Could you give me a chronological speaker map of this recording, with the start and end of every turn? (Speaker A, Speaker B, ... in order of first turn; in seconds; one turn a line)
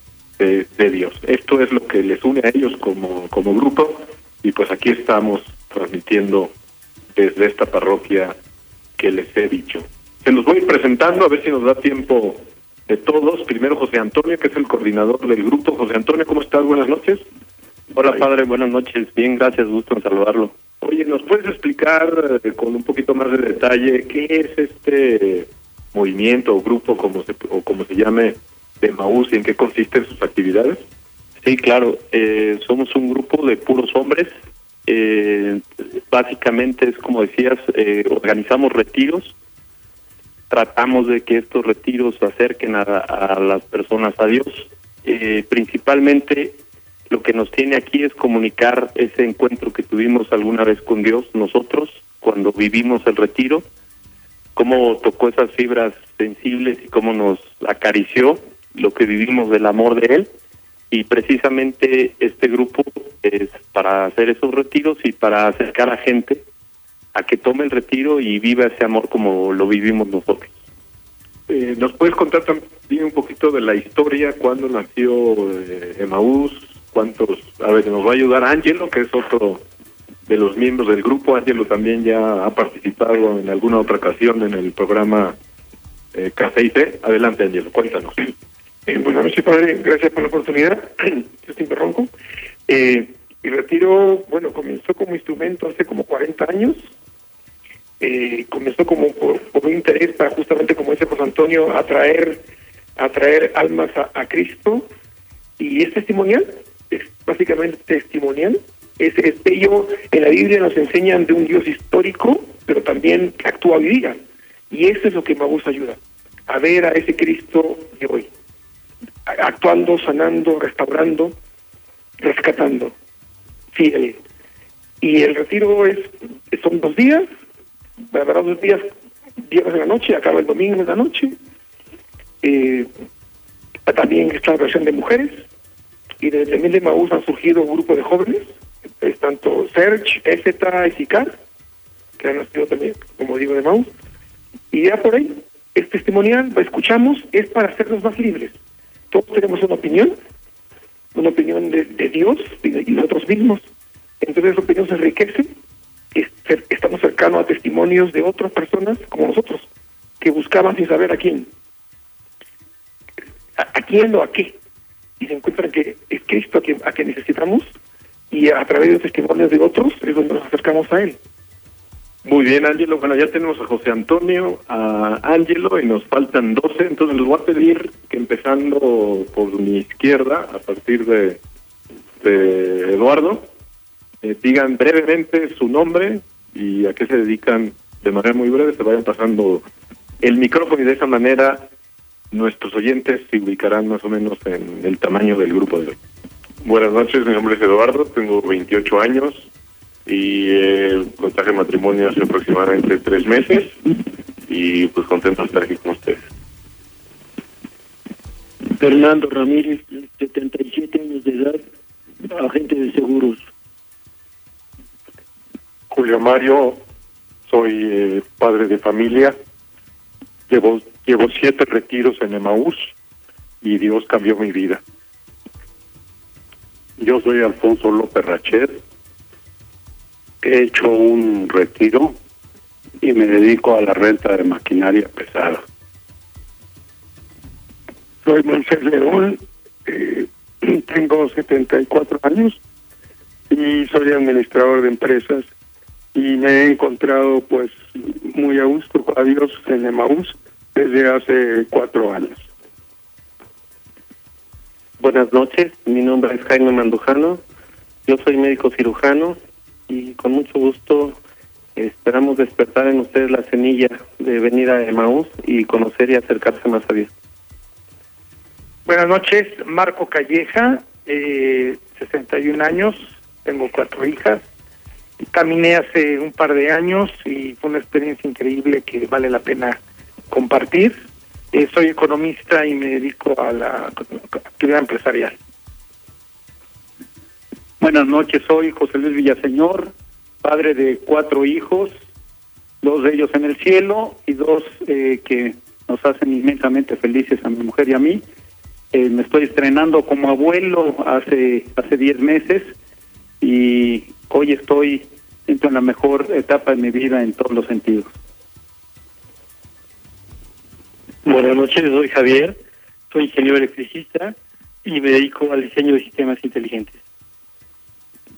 Speaker A: 0.4-6.5
Speaker A: 7.1-8.3
Speaker A: 9.0-17.2
Speaker B: 17.9-20.5
Speaker A: 20.8-30.8
Speaker B: 31.4-34.3
Speaker B: 34.9-39.3
Speaker B: 40.5-46.6
Speaker B: 47.1-53.6
Speaker B: 54.5-60.3
Speaker B: 60.9-66.4
Speaker B: 67.1-70.5
Speaker A: 71.5-79.6
Speaker A: 80.2-85.4
Speaker A: 86.1-88.1
Speaker C: 88.9-92.1
Speaker C: 92.7-96.9
Speaker C: 98.0-102.4
Speaker C: 103.0-104.9
Speaker C: 105.6-118.3
Speaker C: 119.3-121.3
Speaker C: 122.2-122.9
Speaker C: 123.7-124.2
Speaker C: 125.0-127.3
Speaker C: 128.1-128.9
Speaker C: 129.4-131.3
Speaker C: 132.4-132.9
Speaker C: 133.9-135.4
Speaker C: 136.2-141.3
Speaker C: 142.2-143.9
Speaker C: 144.7-148.6
Speaker C: 149.1-150.2
Speaker C: 151.1-153.6
Speaker C: 154.2-155.5
Speaker C: 156.1-159.7
Speaker C: 160.2-161.5
Speaker C: 163.6-164.6
Speaker C: 165.2-167.7
Speaker C: 168.3-171.2
Speaker A: 172.2-181.4
Speaker A: 182.2-183.5
Speaker A: 184.2-189.6
Speaker A: 190.2-191.7
Speaker A: 192.3-196.0
Speaker D: 196.6-199.5
Speaker D: 200.1-203.8
Speaker D: 204.4-206.2
Speaker E: 208.8-211.6
Speaker E: 212.3-213.4
Speaker F: 215.9-216.8
Speaker F: 217.5-219.4
Speaker F: 220.5-222.9
Speaker F: 223.6-224.8
Speaker G: 227.0-228.8
Speaker G: 230.4-232.2
Speaker G: 233.0-235.6
Speaker H: 238.2-242.6
Speaker H: 243.5-245.5
Speaker H: 246.1-252.5
Speaker I: 255.0-257.4
Speaker I: 258.1-259.4
Speaker I: 259.9-261.2
Speaker I: 261.8-267.1
Speaker J: 268.9-274.4
Speaker J: 275.2-280.9
Speaker J: 281.5-285.4
Speaker K: 287.8-291.9
Speaker K: 292.8-298.2
Speaker K: 298.9-302.7
Speaker K: 303.4-308.1
Speaker L: 311.2-312.6
Speaker L: 313.1-317.0